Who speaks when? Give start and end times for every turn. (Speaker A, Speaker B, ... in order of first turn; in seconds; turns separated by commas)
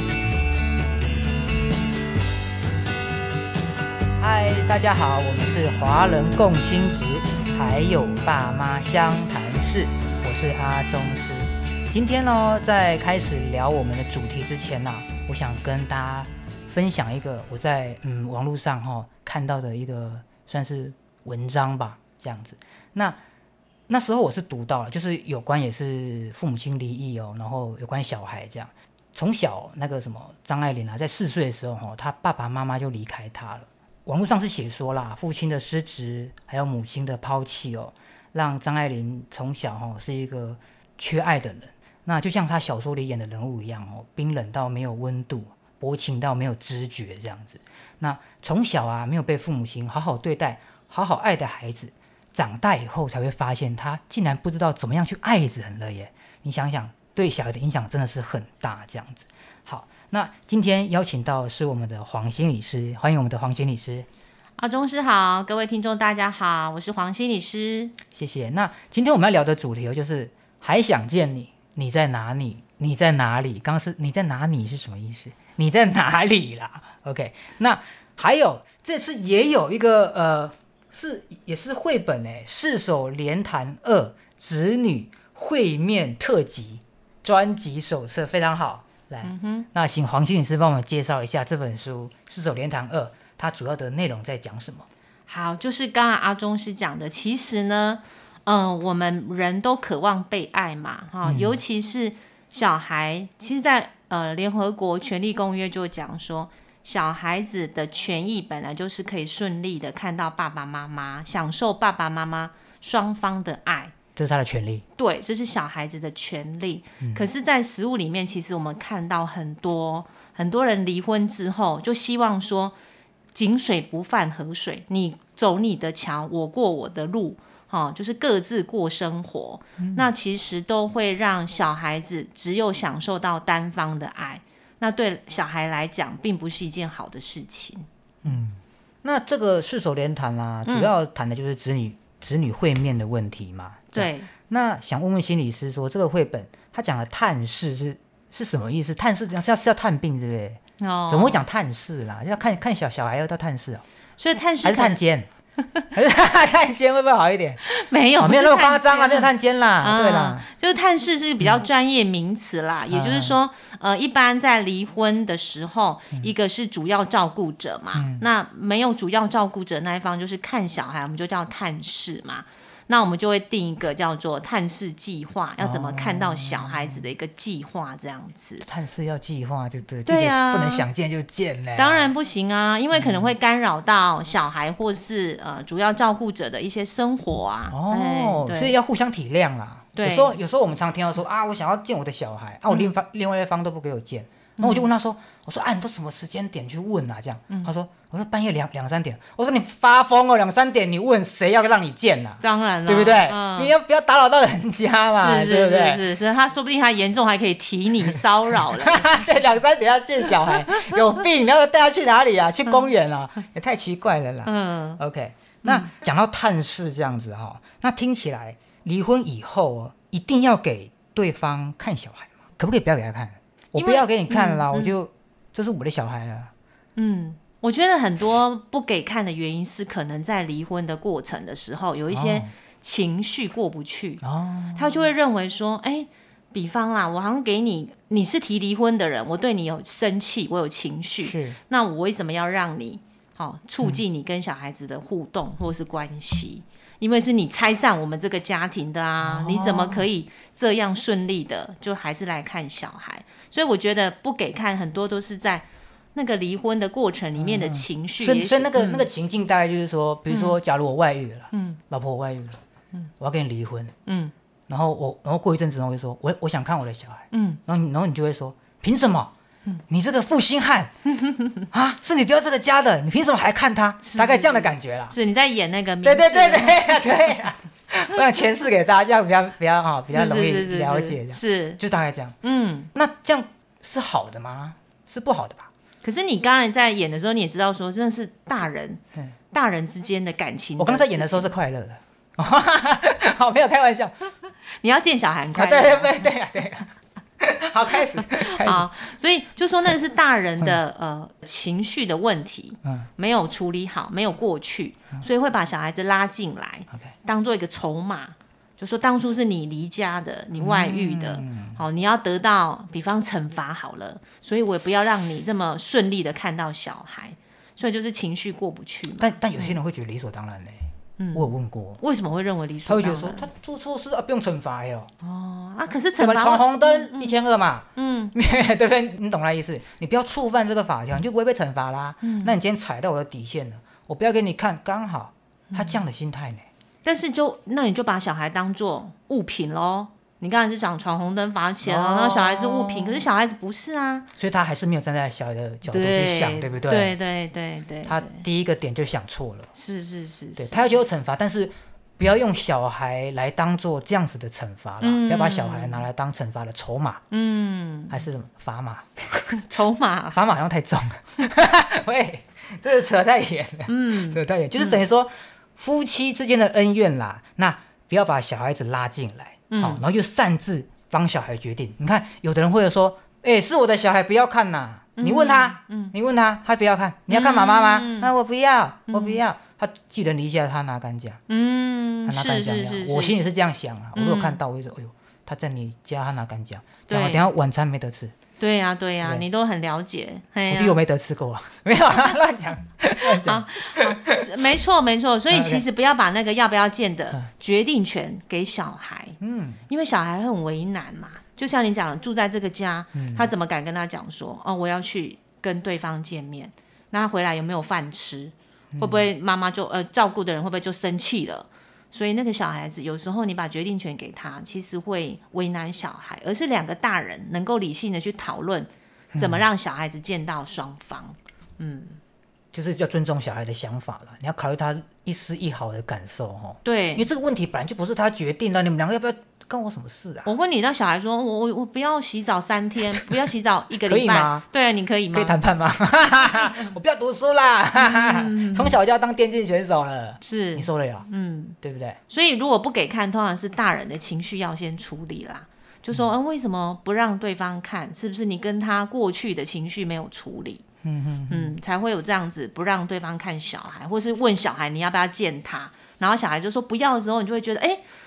Speaker A: 4.2-23.2, Speaker A: 23.9-64.1, Speaker B: 64.6-67.9, Speaker A: 68.1-94.8, Speaker B: 89.2-89.7, Speaker B: 95.3-113.9, Speaker A: 101.2-101.6, Speaker A: 114.2-114.8, Speaker B: 115.0-122.8, Speaker B: 123.3-137.9, Speaker A: 129.8-130.1, Speaker A: 138.2-153.8, Speaker B: 140.7-140.9, Speaker B: 143.9-144.3, Speaker B: 150.8-151.4, Speaker B: 154.2-155.0, Speaker A: 154.6-155.3, Speaker A: 155.9-157.6, Speaker B: 157.6-159.3, Speaker A: 158.2-160.5, Speaker B: 159.8-178.7, Speaker A: 162.9-163.4, Speaker A: 167.9-168.2, Speaker A: 175.6-177.0, Speaker A: 178.6-182.1, Speaker B: 180.1-180.9, Speaker B: 181.8-188.8, Speaker A: 182.9-183.2, Speaker A: 187.7-206.0, Speaker B: 189.9-190.4, Speaker B: 194.6-194.9, Speaker B: 202.4-203.7, Speaker B: 205.1-209.3, Speaker A: 208.8-226.5, Speaker B: 214.4-215.0, Speaker B: 215.6-215.9, Speaker B: 223.8-225.0, Speaker B: 227.0-234.2, Speaker A: 232.1-232.5, Speaker A: 234.2-234.9, Speaker B: 234.8-259.1, Speaker A: 241.2-241.6, Speaker A: 249.2-250.1, Speaker A: 257.4-262.6, Speaker B: 260.3-260.6, Speaker B: 261.5-261.8, Speaker A: 263.2-263.9, Speaker B: 264.1-264.3, Speaker A: 264.7-269.3, Speaker B: 267.3-267.6, Speaker A: 269.9-270.9, Speaker A: 271.7-275.2, Speaker B: 274.0-277.0, Speaker A: 276.0-282.4, Speaker B: 280.1-281.8, Speaker B: 282.4-282.9, Speaker A: 282.9-285.7, Speaker B: 286.0-289.0, Speaker B: 289.5-291.5, Speaker A: 290.8-294.1, Speaker B: 294.8-296.3, Speaker A: 295.5-298.9, Speaker B: 298.3-319.8, Speaker A: 302.8-303.1, Speaker A: 310.6-311.8, Speaker A: 319.2-322.0, Speaker B: 321.2-323.5, Speaker A: 322.9-325.1, Speaker B: 325.2-327.4, Speaker A: 326.2-336.7, Speaker B: 327.9-328.3, Speaker B: 332.2-332.6, Speaker B: 335.7-336.0, Speaker B: 337.0-344.3, Speaker A: 341.8-343.3, Speaker A: 344.4-347.2, Speaker B: 345.9-348.4, Speaker A: 348.0-349.7, Speaker B: 349.7-350.9, Speaker A: 350.6-357.2, Speaker B: 355.0-356.1, Speaker B: 357.3-358.2, Speaker A: 358.1-359.6, Speaker B: 359.6-360.4, Speaker A: 360.3-381.4, Speaker B: 363.9-365.0, Speaker B: 369.7-370.0, Speaker B: 375.2-376.1, Speaker B: 377.3-378.3, Speaker B: 379.1-379.4, Speaker B: 381.5-383.4, Speaker A: 382.2-388.3, Speaker B: 384.1-384.6, Speaker B: 387.1-387.5, Speaker B: 388.6-391.0, Speaker A: 390.7-394.5, Speaker B: 393.2-399.4, Speaker A: 395.5-395.8, Speaker A: 399.4-399.8, Speaker B: 399.9-422.2, Speaker A: 403.1-403.5, Speaker A: 408.9-409.3, Speaker A: 419.3-419.7, Speaker A: 422.7-430.5, Speaker B: 426.8-427.3, Speaker B: 430.4-435.6, Speaker A: 434.0-434.6, Speaker A: 435.3-441.3, Speaker B: 437.9-439.0, Speaker B: 440.4-441.8, Speaker A: 441.8-442.2, Speaker B: 442.3-450.8, Speaker A: 451.0-451.8, Speaker B: 451.5-458.0